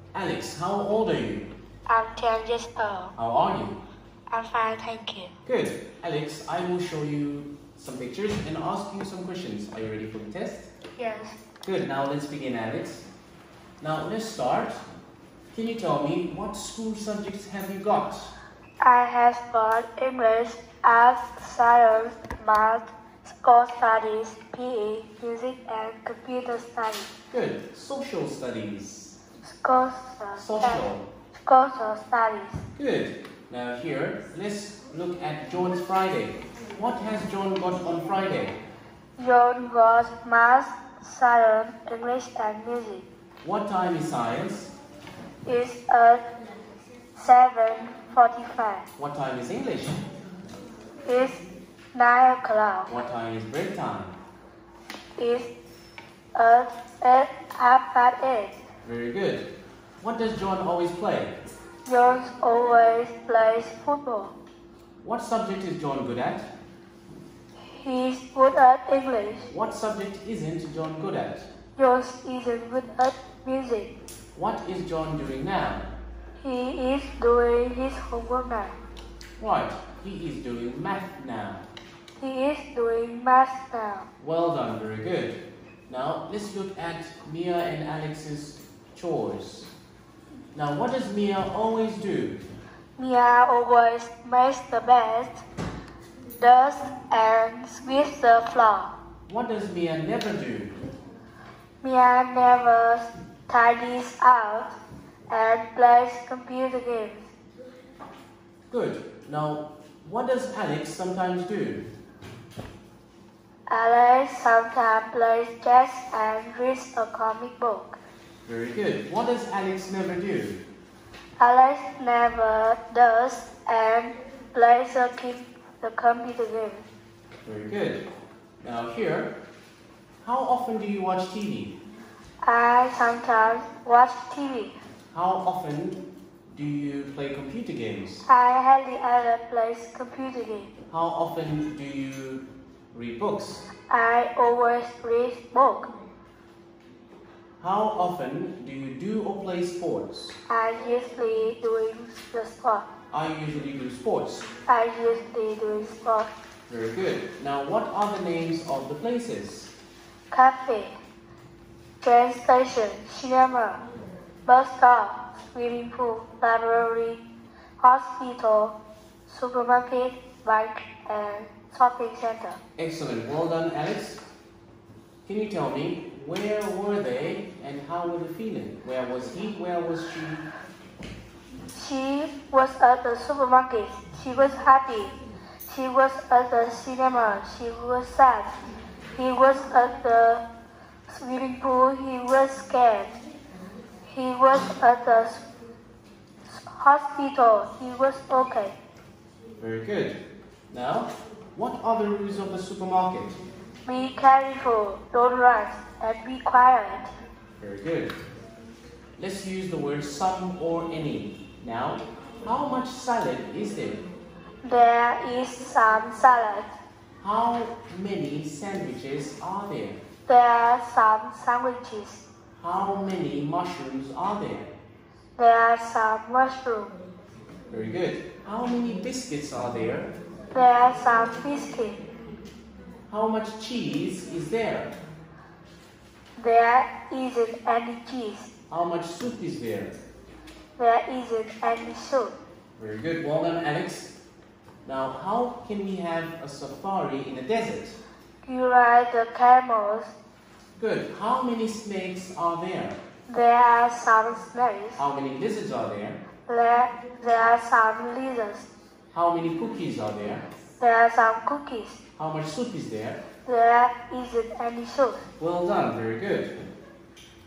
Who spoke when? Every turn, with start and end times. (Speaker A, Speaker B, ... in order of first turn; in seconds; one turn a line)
Speaker A: 0.1-1.5
Speaker B: 1.9-3.1
Speaker A: 3.2-3.8
Speaker B: 4.3-5.3
Speaker A: 5.4-10.7
Speaker B: 10.9-11.4
Speaker A: 11.6-13.1
Speaker A: 13.8-14.8
Speaker A: 15.5-18.3
Speaker B: 18.8-27.1
Speaker A: 27.3-29.2
Speaker B: 29.5-32.6
Speaker A: 30.4-31.1
Speaker A: 32.8-38.6
Speaker B: 39.2-43.0
Speaker A: 43.4-44.7
Speaker B: 45.5-46.2
Speaker B: 47.1-48.9
Speaker A: 49.0-50.0
Speaker B: 51.0-51.4
Speaker B: 51.9-53.0
Speaker A: 52.9-54.2
Speaker B: 55.2-55.5
Speaker B: 56.3-58.6
Speaker A: 58.8-59.5
Speaker A: 60.0-61.4
Speaker B: 61.9-64.3
Speaker A: 65.0-66.5
Speaker B: 67.7-69.5
Speaker A: 69.5-71.5
Speaker B: 71.8-73.9
Speaker A: 74.3-76.0
Speaker B: 76.4-78.8
Speaker A: 79.4-81.7
Speaker B: 82.2-84.1
Speaker A: 84.2-89.7
Speaker A: 90.5-92.4
Speaker B: 93.0-95.4
Speaker B: 96.4-98.9
Speaker A: 99.3-100.8
Speaker B: 101.8-104.8
Speaker B: 105.3-107.3
Speaker A: 108.7-111.8
Speaker B: 113.7-118.0
Speaker A: 118.5-120.6
Speaker B: 121.4-126.8
Speaker A: 127.4-128.1
Speaker A: 128.6-129.4
Speaker A: 130.2-131.8
Speaker B: 132.4-134.8
Speaker A: 135.1-138.2
Speaker B: 138.2-140.7
Speaker A: 140.9-143.7
Speaker B: 143.9-145.9
Speaker A: 147.6-150.4
Speaker B: 150.5-152.9
Speaker A: 153.1-154.5
Speaker B: 154.7-156.3
Speaker A: 156.7-159.7
Speaker B: 160.3-160.9
Speaker B: 162.0-163.8
Speaker B: 164.4-167.2
Speaker B: 167.8-168.8
Speaker B: 169.3-172.6
Speaker A: 172.8-174.2
Speaker A: 175.2-180.5
Speaker B: 181.7-188.5
Speaker B: 189.1-190.4
Speaker B: 191.1-193.2
Speaker B: 194.1-195.4
Speaker B: 196.5-198.8
Speaker A: 199.6-200.2
Speaker A: 200.7-203.4
Speaker B: 203.8-207.1
Speaker A: 207.6-208.2
Speaker A: 209.2-214.1
Speaker B: 214.6-216.7
Speaker A: 217.2-220.0
Speaker B: 220.3-222.2
Speaker A: 222.6-224.7
Speaker B: 225.4-226.9
Speaker A: 227.7-230.2
Speaker B: 230.5-232.0
Speaker A: 233.1-234.9
Speaker B: 236.4-238.5
Speaker A: 238.7-239.9
Speaker B: 240.8-242.4
Speaker A: 242.8-244.2
Speaker A: 244.8-248.0
Speaker B: 248.4-250.1
Speaker A: 250.8-253.0
Speaker B: 253.3-255.0
Speaker A: 255.0-256.2
Speaker B: 256.5-258.7
Speaker A: 259.1-260.5
Speaker B: 260.8-262.0
Speaker A: 262.2-263.2
Speaker B: 263.4-265.3
Speaker A: 265.4-266.6